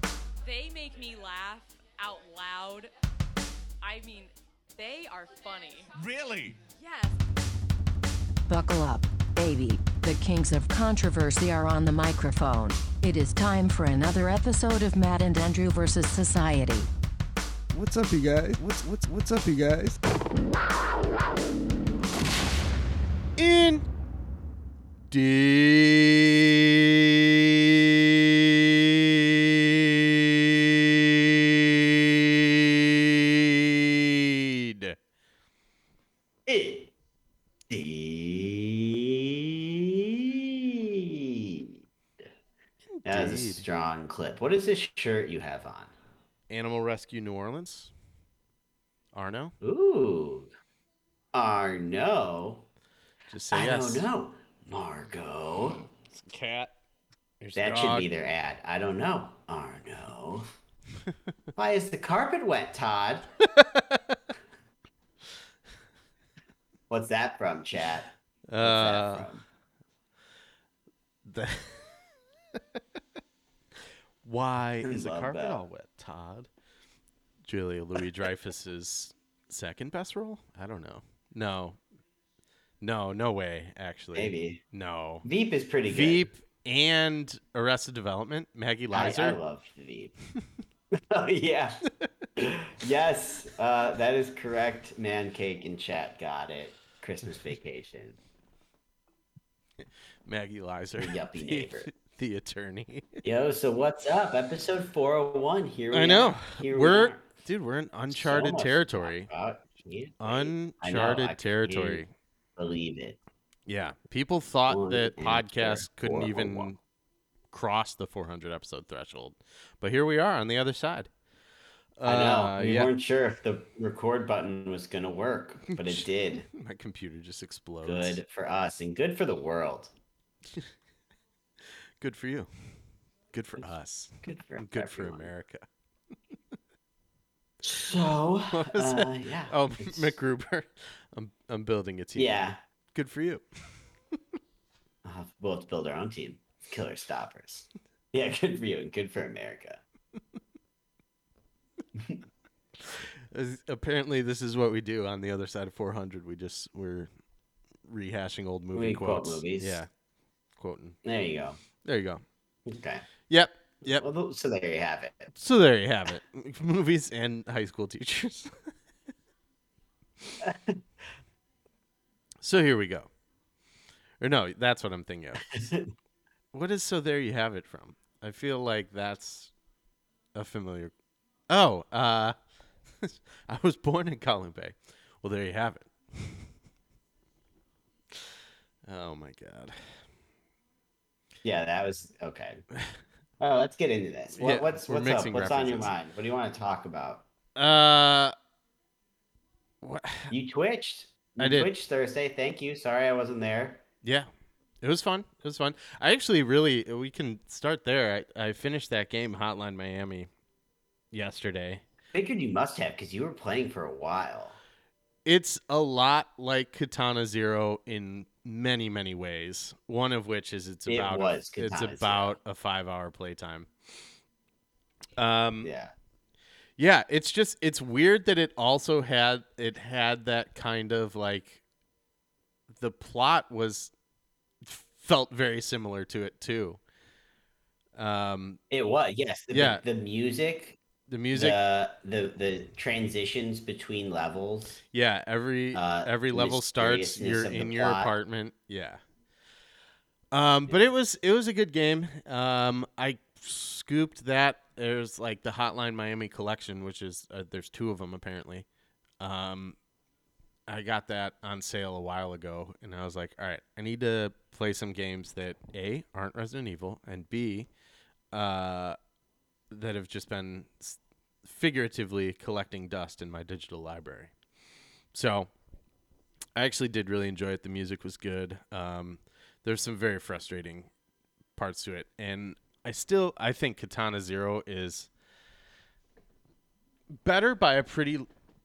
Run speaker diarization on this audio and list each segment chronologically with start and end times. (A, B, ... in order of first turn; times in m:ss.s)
0:00.4-0:02.9 A
0:03.8-0:05.9 A
0:06.0-0:06.6 B
0:06.8-0:07.2 A
0:08.5-0:16.9 C
0:17.7-0:20.0 B
0:23.4-0:23.9 D
0:25.1-0:35.0 D
0:36.5-0:36.9 E
0:37.7-0:41.7 E
0:43.0-0:43.6 D
0:43.1-0:45.9 E
0:46.5-0:47.9 D
0:49.1-0:49.6 D
0:49.6-0:50.5 E
0:51.3-0:52.7 E
0:53.3-0:54.1 D
0:53.5-0:55.8 E
0:56.1-0:56.7 D
0:57.4-0:58.1 D
0:57.6-1:00.5 E
1:01.6-1:03.3 E
1:03.4-1:04.2 D
1:06.9-1:09.5 E
1:08.5-1:09.3 D
1:11.2-1:12.8 D
1:14.2-1:16.5 D
1:14.8-1:15.6 E
1:17.4-1:21.8 D
1:22.8-1:25.2 D
1:24.2-1:24.6 E
1:25.2-1:26.3 E
1:25.9-1:29.4 D
1:28.9-1:30.2 E
1:31.1-1:31.8 E
1:32.4-1:38.2 E
1:40.2-1:43.2 D
1:41.0-1:41.9 E
1:43.2-1:47.3 E
1:45.9-1:49.3 D
1:48.1-1:52.0 E
1:50.2-1:52.1 D
1:52.6-1:53.2 E
1:53.7-1:56.8 D
1:54.7-1:56.7 E
1:57.5-2:01.1 D
2:02.0-2:02.9 D
2:02.0-2:06.5 E
2:05.8-2:08.2 D
2:07.8-2:09.9 E
2:12.0-2:12.8 D
2:13.3-2:15.7 D
2:14.2-2:15.3 E
2:17.6-2:20.1 E
2:18.5-2:22.4 D
2:22.2-2:22.6 E
2:22.9-2:23.4 D
2:25.0-2:29.8 E
2:32.8-2:37.1 D
2:37.8-2:39.9 D
2:38.7-2:39.8 E
2:40.6-2:41.0 D
2:41.0-2:41.6 E
2:41.8-2:42.2 D
2:42.7-2:43.1 E
2:43.3-2:44.0 D
2:43.9-2:45.3 E
2:45.4-2:48.7 D
2:50.4-2:50.8 E
2:52.4-2:53.1 D
2:54.2-2:55.6 D
2:55.6-2:55.9 E
2:56.5-2:59.5 D
3:00.4-3:00.9 D
3:01.5-3:02.4 D
3:03.0-3:06.5 D
3:08.1-3:09.8 D
3:11.4-3:12.6 E
3:13.4-3:17.2 E
3:14.3-3:15.9 D
3:17.6-3:18.4 D
3:19.8-3:20.3 D
3:20.3-3:23.8 E
3:21.4-3:21.7 D
3:24.0-3:24.3 D
3:24.8-3:30.3 D
3:31.1-3:31.8 D
3:32.1-3:34.6 E
3:35.2-3:43.7 D
3:40.9-3:42.4 E
3:45.2-3:45.7 D
3:45.6-3:45.9 E
3:46.8-3:51.6 D
3:52.7-3:53.9 D
3:54.6-3:56.8 D
3:58.0-3:58.6 D
3:58.7-4:00.8 E
3:59.5-3:59.8 D
4:01.1-4:01.6 D
4:01.3-4:04.8 E
4:04.9-4:09.0 D
4:05.8-4:08.1 E
4:10.3-4:18.7 D
4:19.2-4:19.8 D
4:20.7-4:27.7 D
4:28.3-4:29.0 D
4:29.7-4:34.3 D
4:35.1-4:35.5 D
4:36.6-4:40.9 D
4:41.6-4:45.1 D
4:47.1-4:48.3 D